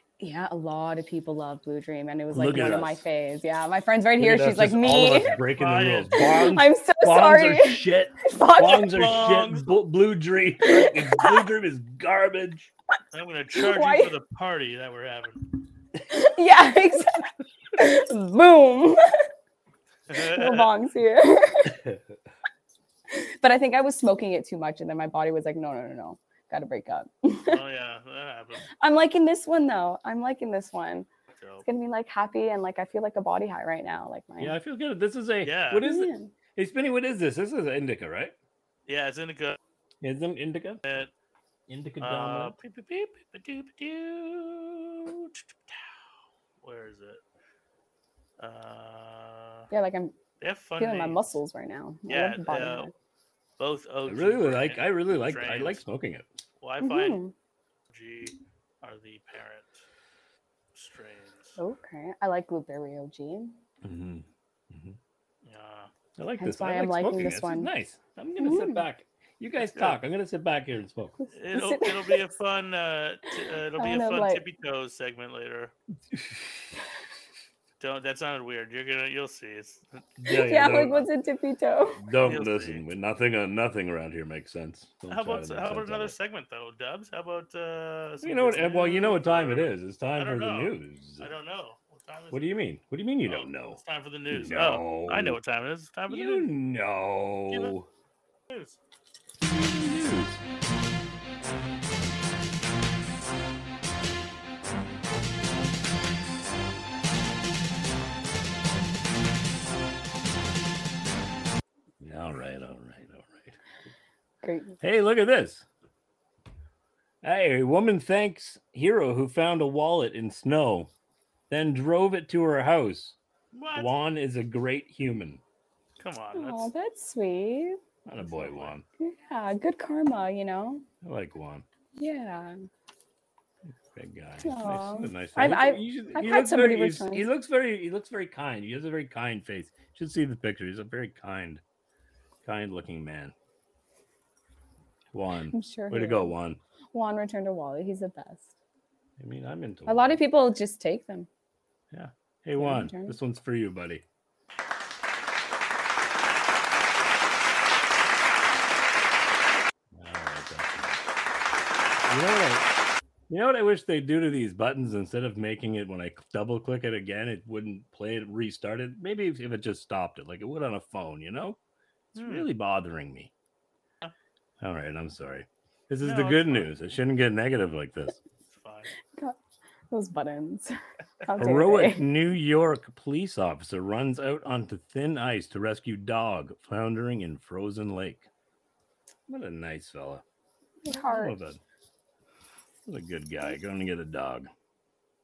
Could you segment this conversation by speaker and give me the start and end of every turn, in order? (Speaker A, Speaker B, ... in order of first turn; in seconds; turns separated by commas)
Speaker A: 0.2-5.4, Speaker B: 2.3-3.0, Speaker B: 4.2-12.7, Speaker C: 5.4-6.3, Speaker A: 6.2-9.1, Speaker C: 8.9-9.7, Speaker A: 10.6-11.5, Speaker C: 13.1-15.4, Speaker A: 13.5-14.1, Speaker A: 16.1-19.1, Speaker C: 20.1-20.7, Speaker A: 20.1-21.8, Speaker A: 23.1-27.6, Speaker C: 27.4-28.7, Speaker A: 28.8-31.1, Speaker C: 31.3-31.6, Speaker A: 31.6-34.5, Speaker B: 34.4-38.3, Speaker C: 35.4-35.8, Speaker A: 35.8-36.3, Speaker C: 38.9-39.6, Speaker B: 40.0-40.8, Speaker C: 40.8-41.1, Speaker B: 41.7-42.5, Speaker C: 42.0-45.8, Speaker C: 46.6-47.2, Speaker C: 48.4-49.7, Speaker A: 49.7-50.1, Speaker C: 50.4-51.3, Speaker A: 50.8-52.9, Speaker C: 52.1-52.9, Speaker C: 53.6-55.8, Speaker B: 54.0-56.3, Speaker C: 56.6-57.2, Speaker A: 56.8-57.3, Speaker C: 57.9-59.8, Speaker C: 60.7-61.6, Speaker A: 61.6-63.5, Speaker B: 63.8-65.0, Speaker C: 65.4-65.9, Speaker B: 66.2-71.2, Speaker A: 66.4-67.7, Speaker A: 68.4-68.8, Speaker C: 69.7-70.0, Speaker A: 71.2-72.2, Speaker C: 71.3-75.7, Speaker A: 73.8-74.4, Speaker B: 76.1-76.5, Speaker C: 77.8-80.0, Speaker B: 80.2-81.0, Speaker A: 80.3-82.0, Speaker B: 82.0-86.1, Speaker C: 82.2-82.9, Speaker C: 85.1-92.6, Speaker B: 88.2-91.3, Speaker B: 92.3-95.4, Speaker C: 93.2-96.5, Speaker B: 96.1-97.9, Speaker C: 98.5-98.8, Speaker B: 99.4-100.4, Speaker B: 112.0-113.6, Speaker A: 114.4-114.8, Speaker B: 114.8-115.6, Speaker B: 117.2-120.9, Speaker B: 121.5-123.2, Speaker C: 123.5-123.9, Speaker B: 123.8-125.4, Speaker C: 126.0-126.7, Speaker A: 126.3-130.8, Speaker B: 128.1-128.8, Speaker C: 128.4-128.7, Speaker B: 131.0-131.6, Speaker A: 131.9-132.6, Speaker B: 133.9-141.6, Speaker A: 134.4-137.2, Speaker B: 142.4-143.3, Speaker B: 145.1-146.6, Speaker A: 145.5-146.3, Speaker A: 146.9-148.5, Speaker B: 149.2-150.2, Speaker A: 149.9-151.3, Speaker B: 151.9-154.0, Speaker A: 152.6-153.2, Speaker B: 159.9-161.0, Speaker B: 162.0-162.7, Speaker B: 163.3-171.6, Speaker C: 172.1-172.5, Speaker B: 172.1-173.3, Speaker B: 174.6-178.2, Speaker C: 176.0-176.7, Speaker C: 178.5-178.9, Speaker A: 179.1-179.4, Speaker A: 179.9-180.7, Speaker A: 181.2-182.0, Speaker B: 181.4-188.3, Speaker B: 189.3-190.2, Speaker A: 190.8-191.3, Speaker B: 190.9-191.6, Speaker B: 192.8-194.5